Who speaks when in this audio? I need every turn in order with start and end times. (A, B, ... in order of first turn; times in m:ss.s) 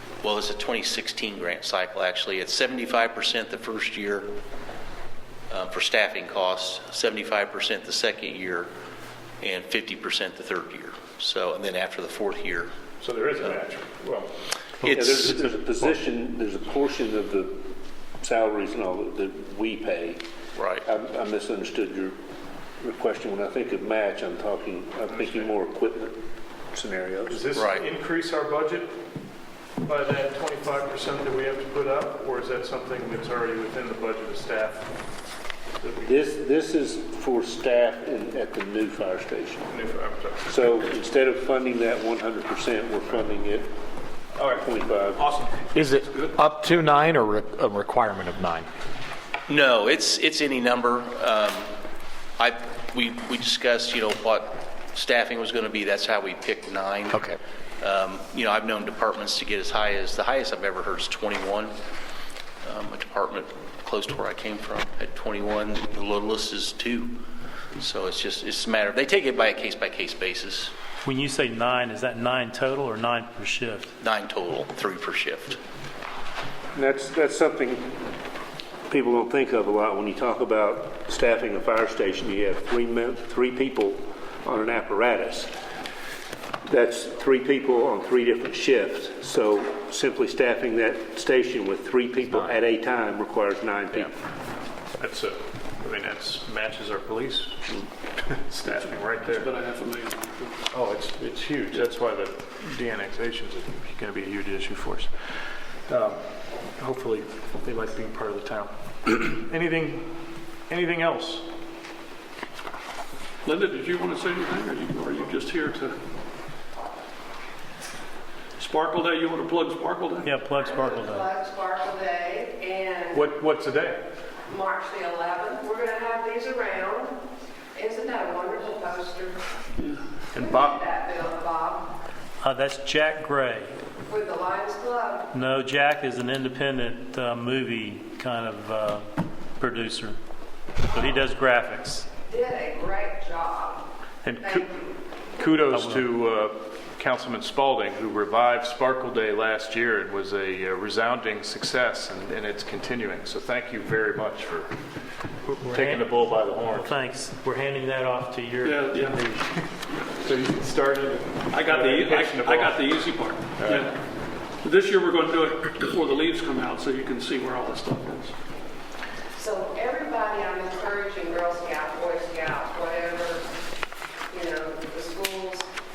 0:00.2-0:04.3 A
0:05.5-0:08.7 A
0:09.4-0:12.7 A
0:13.0-0:14.3 B
0:14.8-0:15.4 A
0:14.9-0:17.7 C
0:18.2-0:20.2 C
0:20.6-0:20.8 A
0:20.8-0:22.2 C
0:22.8-0:26.2 C
0:25.2-0:25.5 B
0:26.7-0:27.4 C
0:27.3-0:28.9 B
0:27.5-0:27.8 A
0:29.8-0:34.9 B
0:35.8-0:36.1 B
0:36.0-0:39.6 C
0:39.7-0:40.7 B
0:40.5-0:43.7 C
0:44.4-0:45.7 B
0:44.5-0:45.3 C
0:45.7-0:48.7 D
0:46.0-0:46.4 E
0:49.5-0:51.7 A
0:52.4-0:57.2 A
0:57.1-0:57.4 D
0:57.8-1:01.7 A
1:02.6-1:07.2 A
1:07.8-1:10.7 A
1:11.0-1:13.9 F
1:14.0-1:15.6 A
1:16.7-1:17.9 C
1:18.9-1:25.5 C
1:26.6-1:34.1 C
1:35.0-1:37.6 B
1:38.2-1:39.5 B
1:38.7-1:40.6 E
1:40.7-1:45.1 B
1:45.9-1:46.2 B
1:46.8-1:50.1 B
1:50.7-1:51.4 B
1:53.4-1:56.0 E
1:58.6-2:00.3 E
2:00.2-2:01.3 F
2:00.6-2:03.3 G
2:03.1-2:04.0 B
2:04.5-2:07.2 G
2:07.7-2:09.4 G
2:10.3-2:10.8 B
2:10.4-2:11.9 G
2:12.4-2:13.7 F
2:14.0-2:15.3 G
2:15.3-2:20.2 F
2:20.9-2:22.1 F
2:22.2-2:23.9 G
2:24.2-2:24.7 B
2:24.4-2:24.9 G
2:25.4-2:34.7 B
2:25.7-2:26.1 F
2:35.4-2:39.4 F
2:35.7-2:36.9 B
2:38.6-2:39.2 E
2:40.1-2:42.9 B
2:41.5-2:44.0 E
2:43.6-2:43.9 B
2:44.6-2:48.3 E
2:49.3-2:53.4 G
2:54.3-2:55.7 G